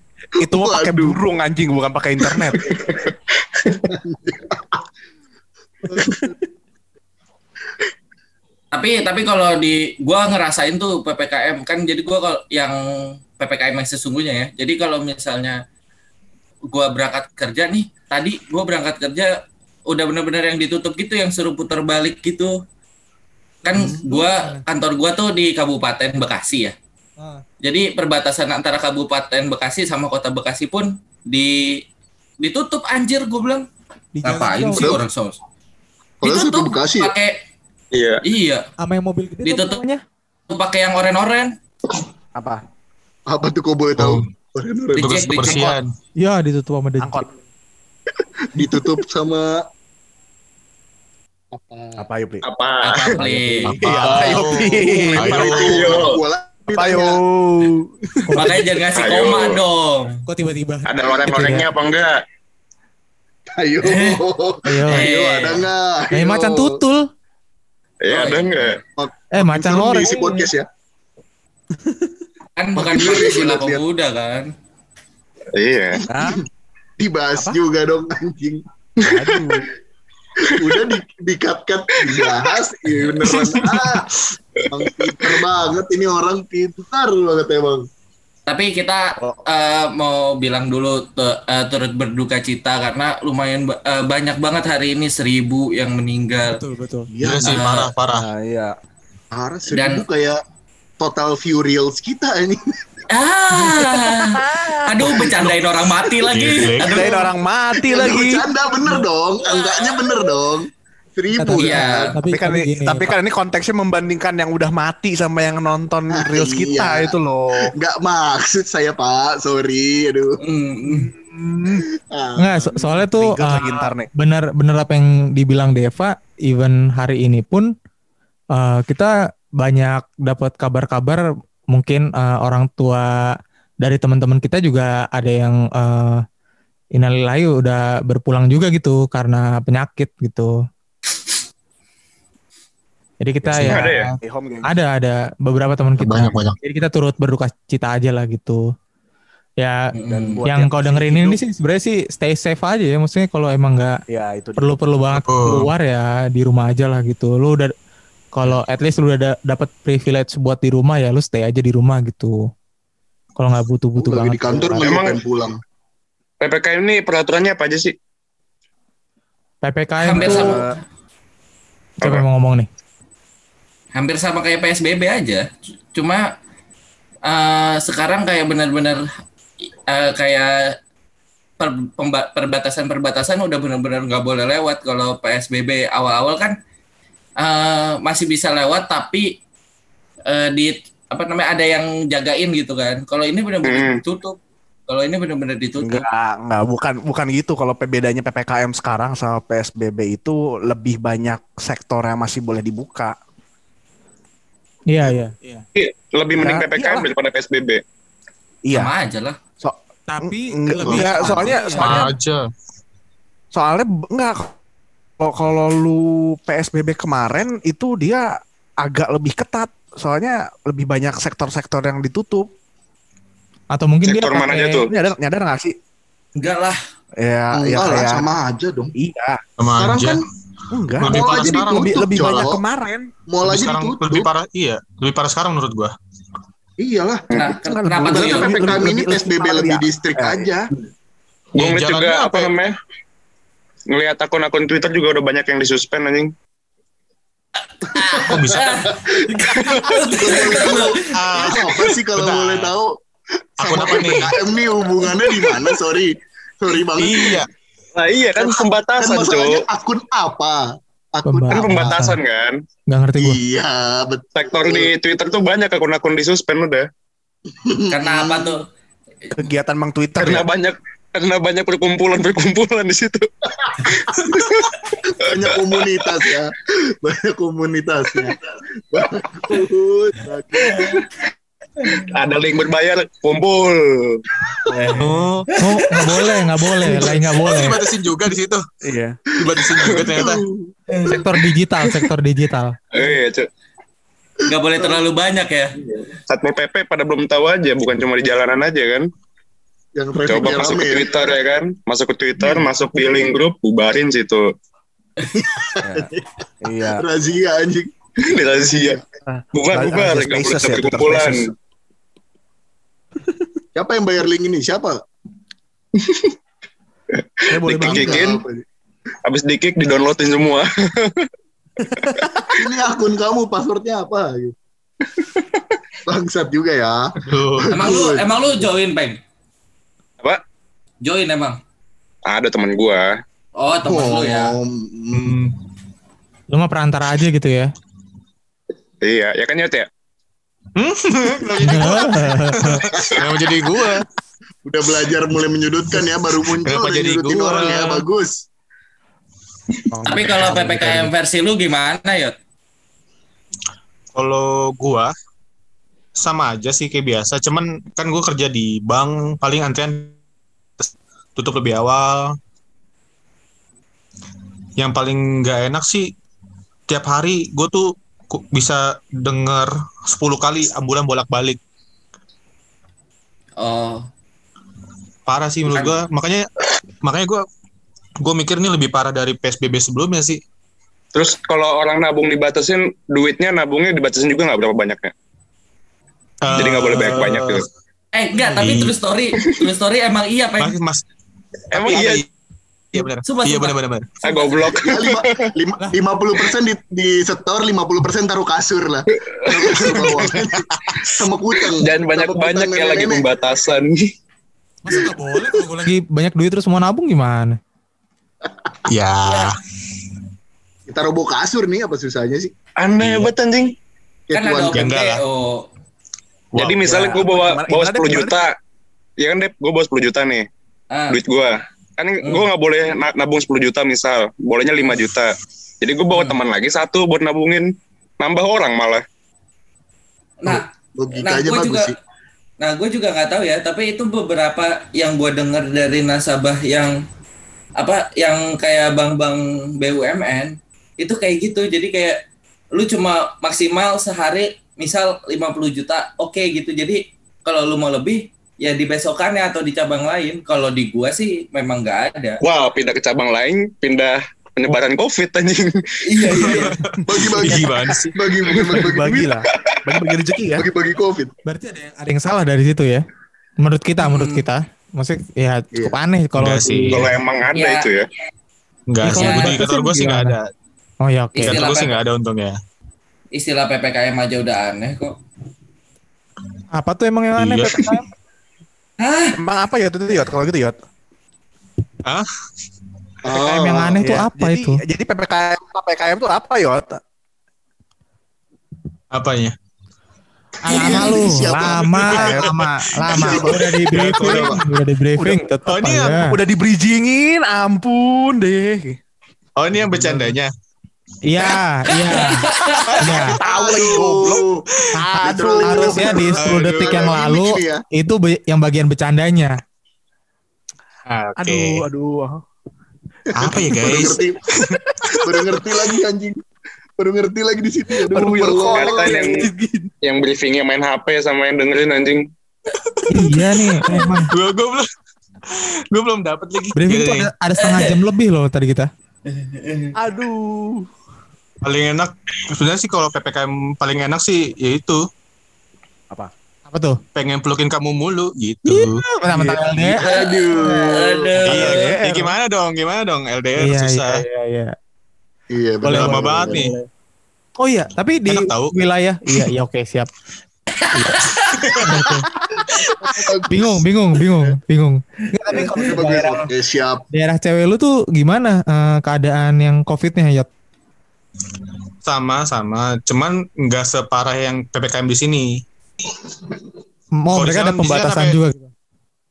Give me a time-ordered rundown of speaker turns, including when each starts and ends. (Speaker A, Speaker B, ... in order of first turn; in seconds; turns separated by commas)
Speaker A: 0.4-2.8, Speaker B: 0.4-1.2, Speaker B: 2.3-3.1, Speaker B: 3.6-4.8, Speaker B: 5.9-6.3, Speaker C: 8.7-15.6, Speaker C: 16.7-19.3, Speaker C: 19.9-22.6, Speaker C: 23.6-26.8, Speaker B: 23.8-24.0, Speaker D: 24.1-24.6, Speaker C: 27.6-31.8, Speaker C: 32.4-33.6, Speaker D: 34.1-35.0, Speaker C: 34.2-35.4, Speaker B: 36.2-37.1, Speaker C: 36.2-37.4, Speaker E: 37.9-38.2, Speaker C: 38.2-38.7, Speaker D: 38.8-40.0, Speaker C: 39.4-39.8, Speaker C: 40.5-41.5, Speaker A: 42.3-42.6, Speaker B: 43.3-45.3, Speaker F: 44.0-44.2, Speaker C: 45.0-45.8, Speaker F: 45.0-45.9, Speaker D: 46.2-47.2, Speaker A: 47.0-47.3, Speaker B: 48.5-49.6, Speaker B: 51.5-52.0, Speaker A: 52.0-52.4, Speaker E: 52.4-53.1, Speaker C: 52.8-54.4, Speaker A: 53.2-55.5, Speaker F: 53.6-55.8, Speaker B: 53.9-57.2, Speaker E: 55.5-56.2, Speaker A: 56.8-58.5, Speaker D: 58.3-58.7, Speaker C: 58.4-60.2, Speaker E: 58.9-59.6, Speaker D: 60.2-61.7, Speaker E: 60.9-62.1, Speaker B: 63.5-66.8, Speaker C: 63.8-64.2, Speaker D: 64.6-65.1, Speaker C: 64.9-65.7, Speaker D: 66.1-67.1, Speaker E: 68.0-68.8, Speaker C: 68.1-68.8, Speaker B: 69.0-70.7, Speaker D: 69.3-70.4, Speaker A: 71.8-72.1, Speaker C: 72.6-74.5, Speaker B: 72.8-73.8, Speaker E: 75.5-76.0, Speaker A: 76.1-76.4, Speaker B: 77.0-79.4, Speaker A: 79.0-79.7, Speaker B: 80.4-84.1, Speaker F: 83.2-84.0, Speaker B: 84.7-87.9, Speaker C: 88.5-96.6, Speaker D: 96.5-97.1, Speaker B: 97.1-97.7, Speaker F: 97.2-98.3, Speaker C: 97.4-97.9, Speaker A: 98.1-98.7, Speaker B: 99.3-100.4, Speaker C: 99.7-100.0, Speaker B: 101.0-102.8, Speaker C: 103.1-107.3, Speaker A: 103.5-105.5, Speaker B: 105.0-105.5, Speaker F: 106.2-107.1, Speaker A: 106.8-108.5, Speaker B: 107.8-112.1, Speaker C: 109.6-110.1, Speaker D: 111.3-113.1, Speaker C: 111.5-112.1, Speaker A: 112.3-117.7, Speaker B: 116.2-117.1, Speaker B: 117.7-120.4, Speaker C: 120.4-121.1, Speaker A: 120.9-121.8, Speaker B: 121.7-123.0, Speaker D: 122.4-127.7, Speaker A: 123.1-124.1, Speaker D: 128.5-136.2, Speaker D: 136.9-140.5, Speaker D: 143.2-144.1, Speaker A: 143.4-144.7, Speaker E: 143.6-144.1, Speaker D: 144.6-148.7, Speaker F: 146.0-146.6, Speaker D: 149.6-149.9, Speaker C: 149.9-150.4, Speaker A: 150.1-151.4, Speaker D: 150.5-154.0, Speaker A: 154.1-154.8, Speaker D: 154.6-157.7, Speaker F: 155.1-155.7, Speaker D: 158.3-162.5, Speaker D: 163.4-164.8, Speaker B: 164.0-165.6, Speaker E: 164.8-165.2, Speaker E: 166.4-167.9, Speaker D: 169.6-170.5, Speaker C: 170.0-170.8, Speaker A: 170.2-170.8, Speaker D: 172.0-172.7, Speaker C: 173.9-176.2, Speaker C: 177.2-179.1, Speaker C: 179.9-180.8, Speaker C: 181.6-186.6, Speaker C: 187.4-189.4, Speaker C: 190.3-196.1, Speaker E: 193.6-194.0, Speaker A: 195.8-203.2, Speaker D: 204.9-205.6, Speaker E: 205.8-207.8, Speaker A: 206.3-207.1, Speaker A: 208.6-208.9, Speaker C: 208.7-209.4, Speaker A: 209.6-212.1, Speaker D: 210.1-211.9, Speaker B: 210.8-211.5, Speaker F: 211.8-212.5, Speaker A: 213.5-214.5, Speaker A: 215.2-218.3, Speaker A: 218.8-222.5, Speaker D: 223.7-224.8, Speaker E: 224.0-224.9, Speaker A: 224.9-225.8, Speaker C: 226.4-226.8, Speaker A: 227.2-228.3, Speaker B: 227.5-228.9, Speaker A: 228.9-229.4, Speaker F: 229.6-230.2, Speaker B: 229.7-230.2, Speaker A: 230.7-233.1, Speaker F: 231.0-232.5, Speaker B: 231.0-232.6, Speaker B: 233.3-234.3, Speaker F: 233.4-235.9, Speaker B: 236.8-237.4, Speaker C: 237.3-238.8, Speaker A: 237.6-240.5, Speaker B: 238.0-240.7, Speaker E: 241.6-242.8, Speaker F: 241.6-242.5, Speaker E: 243.9-246.3, Speaker C: 247.8-251.1, Speaker B: 248.0-252.9, Speaker F: 248.2-248.7, Speaker F: 251.1-252.7, Speaker B: 253.6-257.4, Speaker F: 253.6-254.3, Speaker F: 256.9-257.5, Speaker E: 257.9-259.6, Speaker B: 258.4-261.9, Speaker D: 261.2-262.2, Speaker E: 261.5-262.6, Speaker D: 262.9-263.4, Speaker B: 263.2-264.9, Speaker E: 264.4-266.9, Speaker B: 267.6-268.6, Speaker C: 267.9-268.6, Speaker A: 269.3-270.5, Speaker E: 270.2-273.3, Speaker B: 273.9-274.5, Speaker E: 274.4-274.7, Speaker B: 275.0-278.4, Speaker B: 278.9-281.1, Speaker E: 282.1-284.2, Speaker C: 284.7-286.4, Speaker A: 285.0-285.2, Speaker F: 285.0-285.4, Speaker D: 285.6-287.8, Speaker F: 287.0-288.6, Speaker A: 288.8-289.2, Speaker F: 289.4-290.4, Speaker B: 289.4-290.7, Speaker D: 291.1-292.8, Speaker E: 292.9-293.5, Speaker C: 294.4-295.8, Speaker B: 294.8-295.0, Speaker E: 296.3-299.1, Speaker B: 299.9-301.1, Speaker E: 300.2-304.5, Speaker B: 305.3-309.0, Speaker A: 305.8-306.1, Speaker A: 306.6-307.0, Speaker E: 308.2-309.0, Speaker A: 309.2-311.5, Speaker E: 309.5-311.5, Speaker B: 313.8-315.0, Speaker E: 316.0-316.3, Speaker E: 317.2-318.4, Speaker A: 317.5-318.3, Speaker B: 317.7-318.6, Speaker E: 319.2-321.3, Speaker A: 321.8-322.3, Speaker B: 322.5-324.5, Speaker B: 326.1-328.6, Speaker F: 327.2-327.9, Speaker C: 327.7-329.2, Speaker C: 331.0-331.6, Speaker E: 332.2-333.2, Speaker C: 333.6-334.6, Speaker B: 333.8-335.4, Speaker F: 335.1-335.5, Speaker D: 336.5-337.7, Speaker E: 339.0-339.9, Speaker F: 340.8-344.1, Speaker D: 341.6-342.8, Speaker B: 342.9-343.4, Speaker B: 344.6-348.4, Speaker F: 346.0-348.0, Speaker A: 349.9-351.1, Speaker C: 350.1-352.3, Speaker F: 354.1-355.1, Speaker F: 356.2-360.1, Speaker F: 360.8-362.4, Speaker F: 364.8-366.1, Speaker F: 366.9-371.6, Speaker C: 373.6-374.1, Speaker F: 375.3-376.5, Speaker F: 377.0-377.4, Speaker F: 378.2-380.4, Speaker E: 381.1-385.1, Speaker F: 386.4-387.6, Speaker E: 386.5-387.6, Speaker C: 388.1-390.8, Speaker F: 388.4-388.9, Speaker F: 390.6-391.0, Speaker F: 391.7-392.2, Speaker E: 391.7-392.2, Speaker F: 392.9-394.2, Speaker C: 393.2-393.8, Speaker E: 394.2-395.5, Speaker C: 394.3-394.8, Speaker B: 394.8-403.2, Speaker E: 399.3-399.7, Speaker F: 399.9-401.1, Speaker E: 401.8-404.0, Speaker D: 404.8-407.6, Speaker F: 408.9-409.6, Speaker C: 409.2-409.5, Speaker B: 410.9-412.5, Speaker E: 412.8-413.7, Speaker F: 413.0-413.3, Speaker B: 414.3-414.9, Speaker C: 414.3-415.7, Speaker F: 414.7-415.2, Speaker F: 416.5-417.1, Speaker E: 416.6-418.5, Speaker A: 416.9-418.4, Speaker E: 419.2-420.5, Speaker C: 420.9-421.2, Speaker E: 421.1-427.7, Speaker C: 426.1-426.4, Speaker E: 428.2-429.0, Speaker C: 430.4-431.9, Speaker B: 430.4-431.9, Speaker C: 432.6-436.9, Speaker C: 437.8-442.2, Speaker C: 442.8-452.4, Speaker E: 452.4-455.8, Speaker C: 456.1-456.8, Speaker F: 456.3-458.2, Speaker B: 457.1-459.4, Speaker A: 458.8-460.7, Speaker B: 460.5-461.3, Speaker D: 461.4-463.0, Speaker D: 463.6-467.1, Speaker C: 464.0-464.4, Speaker F: 466.4-467.1, Speaker E: 466.9-468.1, Speaker C: 467.5-467.9, Speaker F: 468.9-470.5, Speaker D: 469.0-470.4, Speaker C: 469.1-469.6, Speaker D: 471.0-471.6, Speaker C: 471.4-472.0, Speaker F: 471.4-472.6, Speaker C: 473.3-475.2, Speaker D: 476.7-478.0, Speaker F: 477.4-478.0, Speaker C: 479.0-479.4, Speaker A: 479.4-480.8, Speaker B: 483.2-484.1, Speaker D: 483.3-484.8, Speaker A: 484.0-487.0, Speaker F: 489.1-489.5, Speaker D: 490.6-496.4, Speaker A: 490.7-492.5, Speaker F: 490.7-492.3, Speaker B: 490.8-491.6, Speaker B: 493.1-494.6, Speaker F: 493.1-494.6, Speaker F: 495.7-496.3, Speaker A: 496.3-499.0, Speaker F: 499.6-500.5, Speaker A: 499.7-500.4, Speaker D: 501.2-502.5, Speaker C: 502.1-503.1, Speaker F: 502.9-503.3, Speaker D: 503.0-503.4, Speaker A: 503.3-504.4, Speaker B: 503.4-504.6, Speaker A: 504.9-506.3, Speaker D: 505.1-509.6, Speaker B: 505.2-507.8, Speaker F: 506.3-507.1, Speaker F: 511.1-511.8, Speaker A: 511.4-512.4, Speaker F: 513.3-514.2, Speaker B: 513.4-514.4, Speaker B: 515.1-516.4, Speaker B: 517.0-519.2, Speaker A: 518.1-519.9, Speaker E: 518.7-519.5, Speaker E: 520.0-522.2, Speaker F: 522.7-524.9, Speaker D: 523.1-524.3, Speaker F: 525.5-527.3, Speaker D: 526.8-528.9, Speaker C: 527.6-528.0, Speaker C: 529.2-529.9, Speaker A: 530.0-530.9, Speaker F: 531.6-535.1, Speaker D: 536.7-537.0, Speaker F: 537.1-539.0, Speaker D: 538.6-540.0, Speaker A: 539.3-539.8, Speaker B: 539.9-541.5, Speaker C: 540.0-541.9, Speaker D: 540.6-541.0, Speaker F: 541.4-544.2, Speaker A: 541.5-542.0, Speaker D: 541.7-542.3, Speaker D: 543.6-544.8, Speaker B: 545.5-546.7, Speaker F: 545.8-546.8, Speaker D: 547.6-550.1, Speaker F: 548.2-548.8, Speaker C: 550.8-551.8, Speaker F: 551.5-552.0, Speaker D: 551.8-552.3, Speaker B: 552.8-553.8, Speaker D: 553.5-556.5, Speaker B: 555.5-557.0, Speaker D: 557.1-560.5, Speaker F: 562.0-565.6, Speaker D: 567.2-568.7, Speaker F: 567.3-568.4